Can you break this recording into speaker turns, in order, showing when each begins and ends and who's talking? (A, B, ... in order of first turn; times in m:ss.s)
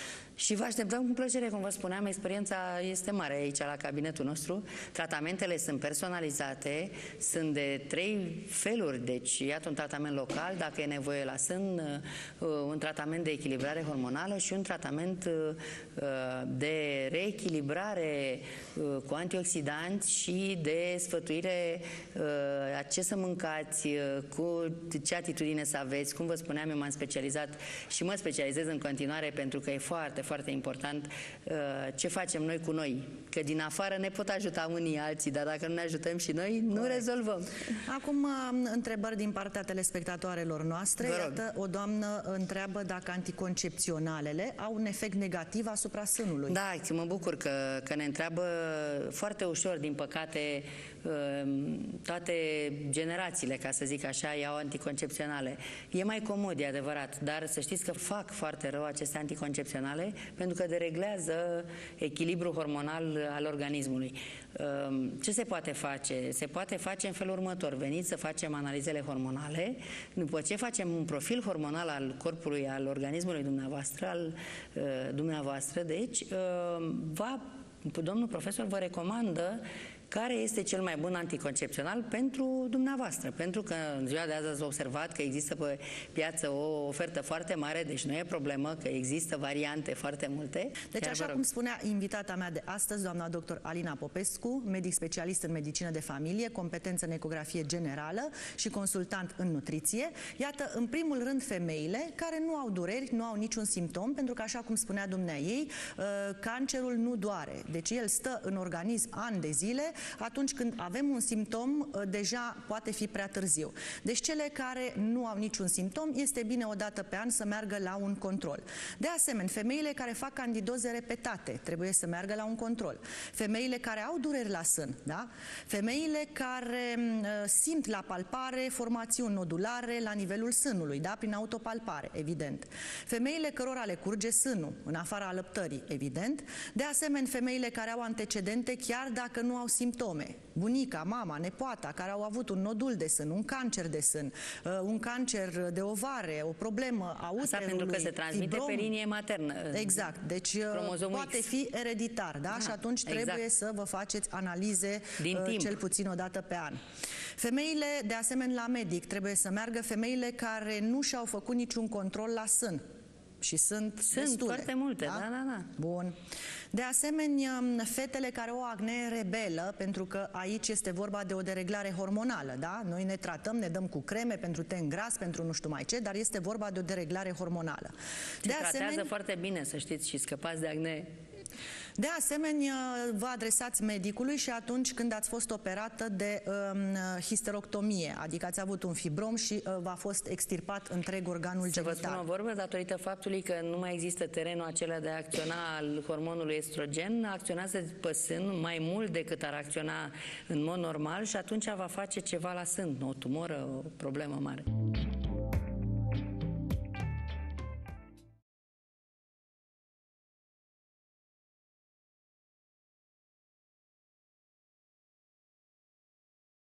0:00.4-0:37.7 A
0:36.7-0:37.0 B
0:37.8-0:46.6 B
0:41.0-0:41.4 A
0:46.5-1:31.4 A
1:30.9-2:28.9 B
2:27.4-2:30.1 A
2:29.7-2:36.8 B
2:30.7-2:31.4 A
2:32.5-2:33.4 A
2:35.2-2:35.8 A
2:37.4-2:42.8 B
2:43.4-2:45.2 B
2:44.0-2:45.7 A
2:45.8-2:46.1 B
2:46.7-2:57.9 B
2:58.4-3:01.1 A
2:58.4-2:59.1 B
3:02.0-3:12.2 B
3:11.6-3:24.7 A